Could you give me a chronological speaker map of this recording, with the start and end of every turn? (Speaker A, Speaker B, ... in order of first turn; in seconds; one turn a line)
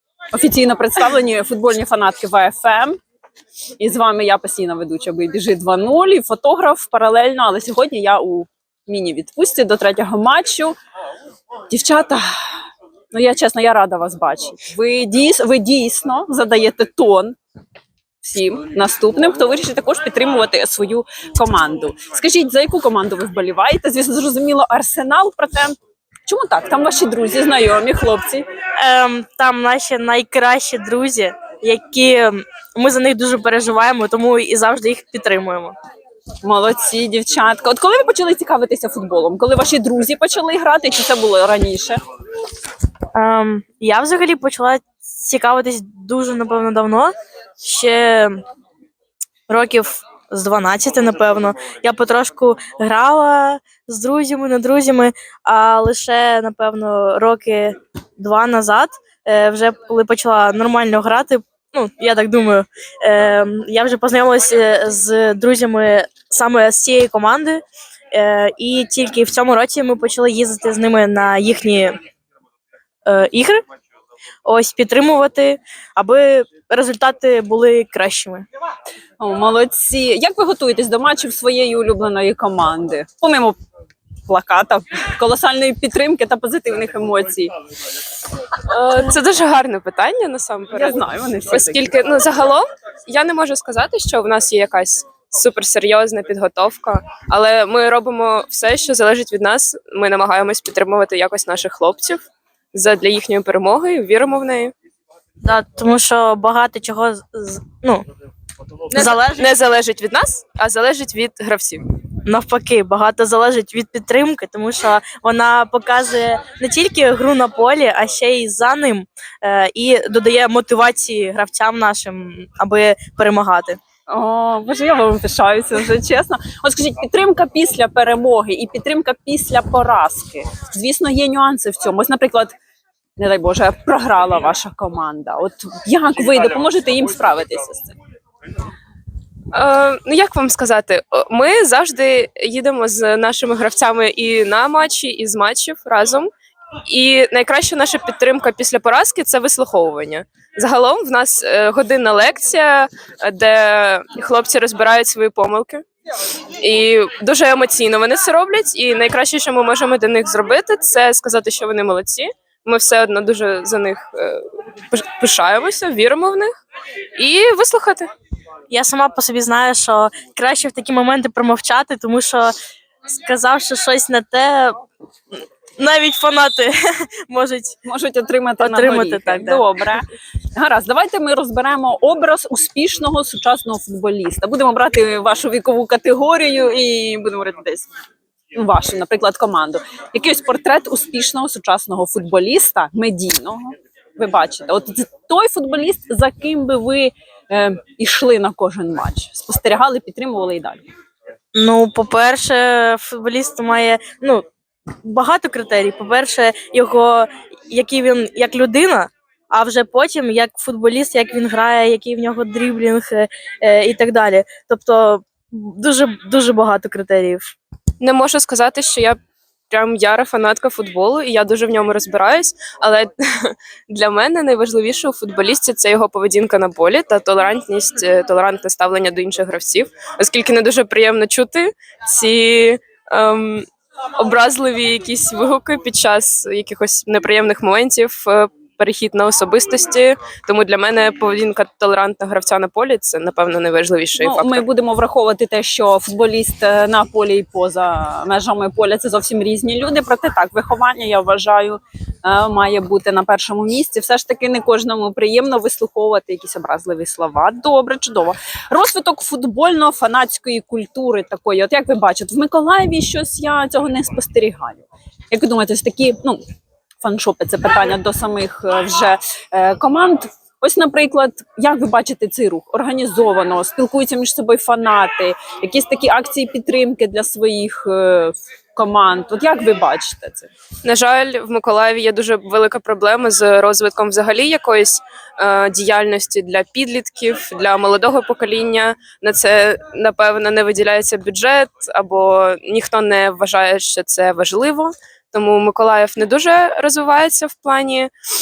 Speaker A: 0.3-3.0
Speaker A: 3.8-10.8
Speaker A: 11.7-12.2
Speaker A: 13.1-17.4
Speaker A: 18.2-28.4
Speaker B: 28.8-35.7
Speaker A: 36.4-42.0
Speaker B: 43.1-48.4
Speaker B: 49.5-71.9
Speaker B: 73.0-73.6
Speaker B: 74.4-78.4
Speaker A: 79.2-83.6
Speaker A: 84.2-87.5
Speaker C: 88.6-104.7
Speaker A: 90.7-91.9
Speaker B: 105.4-108.0
Speaker C: 108.9-111.8
Speaker B: 108.9-109.5
Speaker B: 112.2-123.8
Speaker A: 124.1-132.6
Speaker A: 133.2-137.9
Speaker C: 139.5-146.3
Speaker C: 146.9-155.8
Speaker C: 156.6-166.5
Speaker C: 167.2-168.1
Speaker B: 168.7-172.5
Speaker B: 173.1-174.8
Speaker B: 175.8-177.8
Speaker A: 177.8-187.9
Speaker B: 178.6-179.7
Speaker A: 188.6-200.8
Speaker B: 201.5-204.4
Speaker B: 205.0-217.5
Speaker C: 218.0-219.2
Speaker C: 219.7-244.6
Speaker A: 244.2-266.4
Speaker A: 267.0-280.5
Speaker C: 280.8-298.1